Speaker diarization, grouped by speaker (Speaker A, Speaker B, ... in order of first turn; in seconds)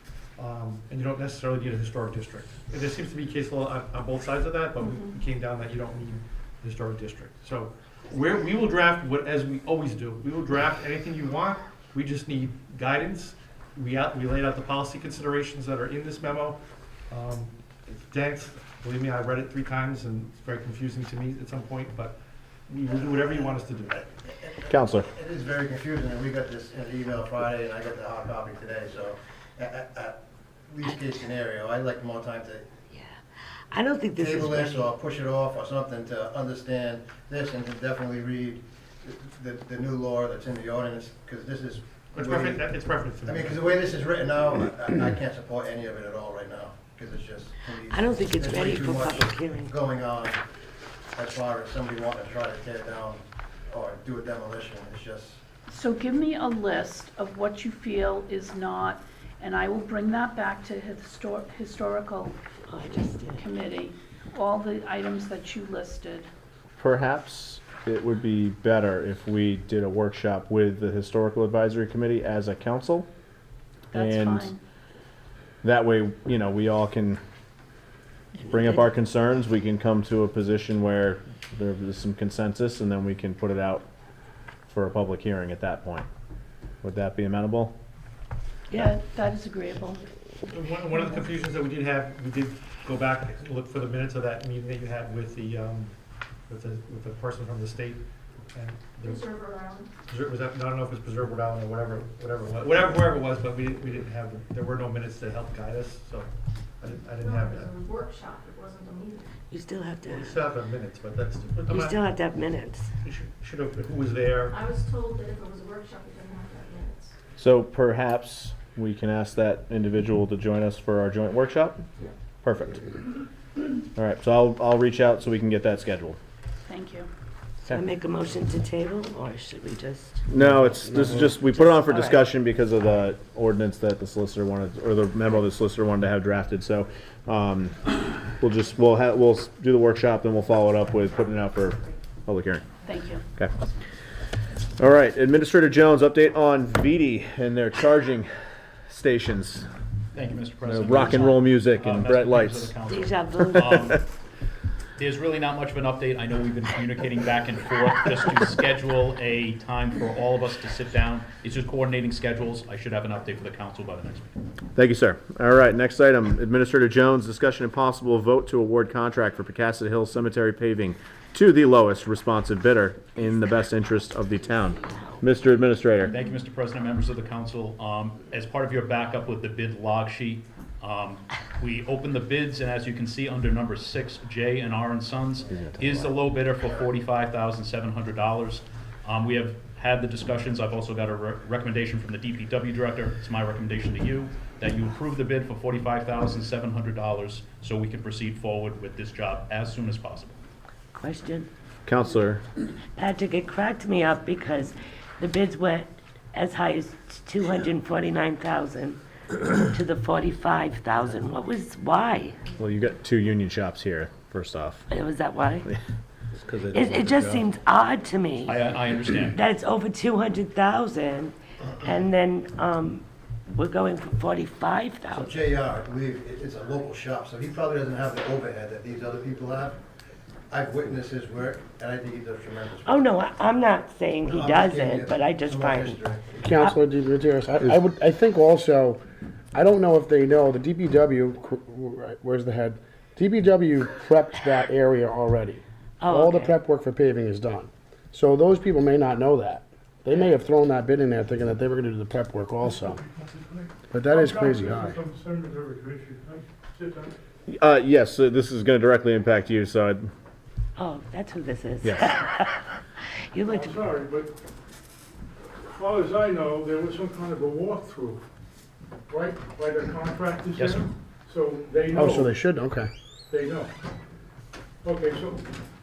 Speaker A: 0.4-24.1, 42.1-43.9, 90.5-96.0, 96.5-99.2, 100.1-107.7, 110.1-112.0, 113.0-114.5
Speaker B: 4.8-5.2, 98.9-99.9, 107.1-109.4, 114.2-117.1
Speaker C: 22.9-32.7, 34.1-42.7, 43.2-50.4, 51.1-55.4, 225.1-229.8, 230.5-233.1, 234.2-236.4
Speaker D: 24.7-25.1, 66.8-73.1, 73.9-74.5, 75.6-77.2, 78.5-83.8, 84.7-86.1, 86.8-87.8, 117.4-121.8, 122.4-122.8, 123.9-126.2, 130.3-142.6, 144.8-148.3, 148.9-149.7, 150.6-152.7, 153.5-153.9, 164.7-176.1, 185.5-186.1, 201.8-202.4, 212.6-214.9, 216.3-217.4, 257.5-260.1, 261.8-262.1
Speaker E: 32.9-34.9, 47.9-49.7, 62.7-63.4, 109.5-110.4, 111.7-112.9, 127.7-130.2, 131.4-132.2, 152.9-153.6, 200.9-201.5, 203.0-209.0, 209.5-212.5, 214.9-215.7, 216.7-218.5, 219.3-225.4, 232.8-236.0, 246.0-246.6, 260.8-262.6, 263.3-263.7
Speaker F: 55.7-62.4, 63.3-66.3, 73.9-74.6, 88.7-90.0, 91.0-91.2, 126.7-127.1, 142.8-143.2
Speaker G: 150.1-154.0, 155.0-164.4, 176.1-200.4, 218.4-219.4, 270.5-270.9
Speaker H: 236.4-239.0, 239.5-253.0, 253.9-255.0, 271.9-272.9
Speaker I: 252.6-257.1, 263.4-264.3, 265.7-268.2, 269.1-272.4, 273.3-273.7, 274.8-275.4